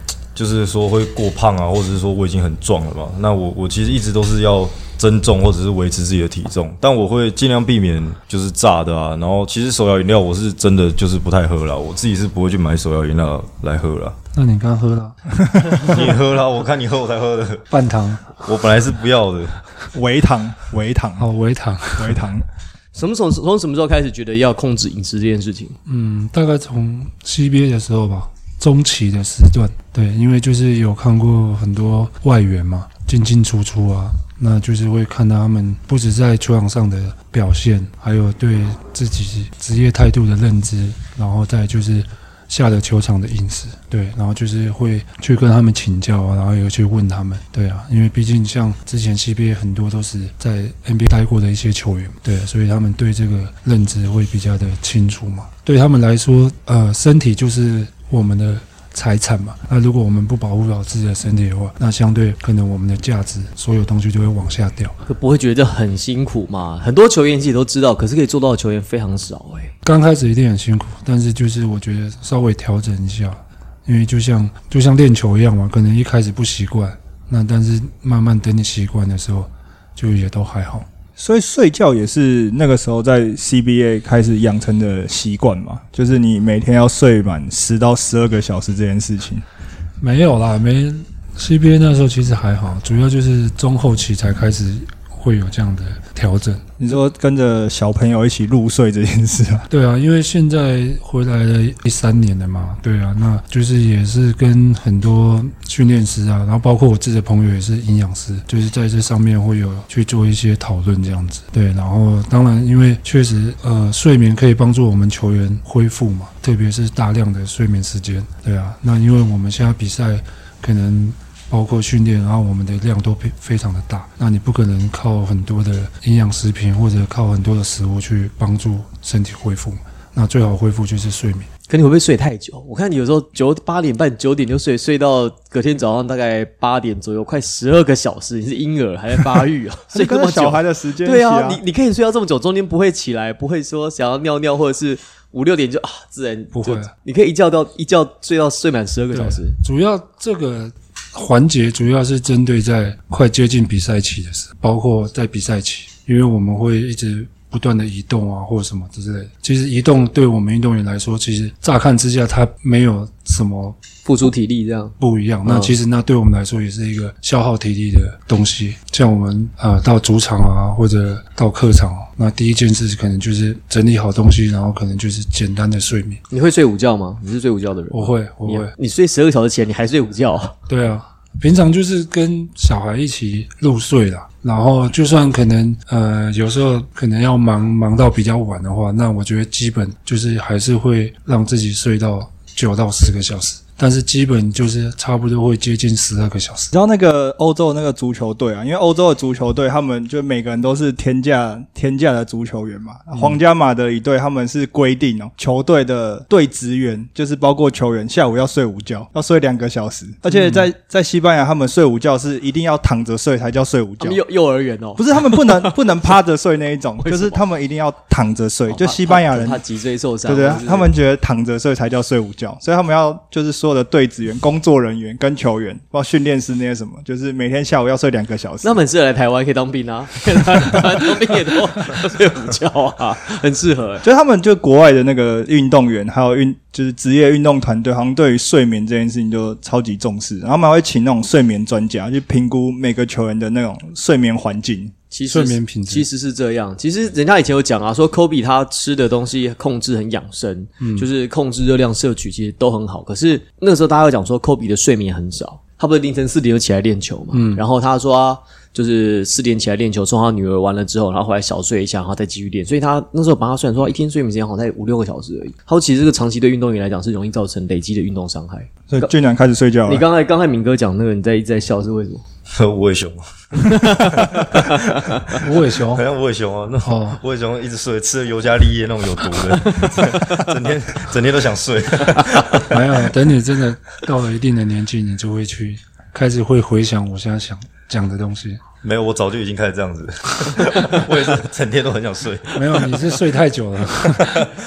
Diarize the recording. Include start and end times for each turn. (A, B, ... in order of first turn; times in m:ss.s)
0:00.4-0:14.2 A
0:14.3-0:15.2 B
0:15.8-0:17.7 A
0:17.7-0:18.3 B
0:18.3-0:19.6 A
0:19.9-0:21.3 C
0:21.2-0:22.2 B
0:22.0-0:22.5 C
0:22.9-0:25.8 D
0:25.9-1:04.9 B
1:05.1-1:09.7 D
1:09.8-1:20.9 B
1:21.2-1:29.4 C
1:30.0-1:36.6 B
1:36.8-1:39.7 C
1:39.7-2:11.5 B
2:11.7-2:29.6 D
2:19.9-2:21.6 C
2:26.5-2:26.9 B
2:29.1-2:43.8 B
2:44.0-2:45.7 D
2:45.0-2:56.2 B
2:56.3-3:00.6 D
2:57.9-2:58.7 B
3:00.7-3:16.7 B
3:16.7-3:34.2 C
3:34.0-3:36.0 D
3:35.0-3:39.6 C
3:37.0-3:37.4 D
3:38.7-3:40.9 D
3:40.3-3:48.8 C
3:48.6-3:54.0 D
3:54.0-4:04.9 C
4:05.1-4:29.1 D
4:05.2-4:06.1 B
4:10.8-4:11.1 B
4:17.3-4:17.6 B
4:28.9-4:30.0 C
4:29.8-4:32.2 D
4:32.5-4:42.8 A
4:33.6-4:35.4 D
4:35.4-4:36.0 B
4:36.8-4:37.2 B
4:39.6-4:40.5 D
4:42.7-4:48.6 B
4:48.8-4:53.0 A
4:52.5-4:54.5 B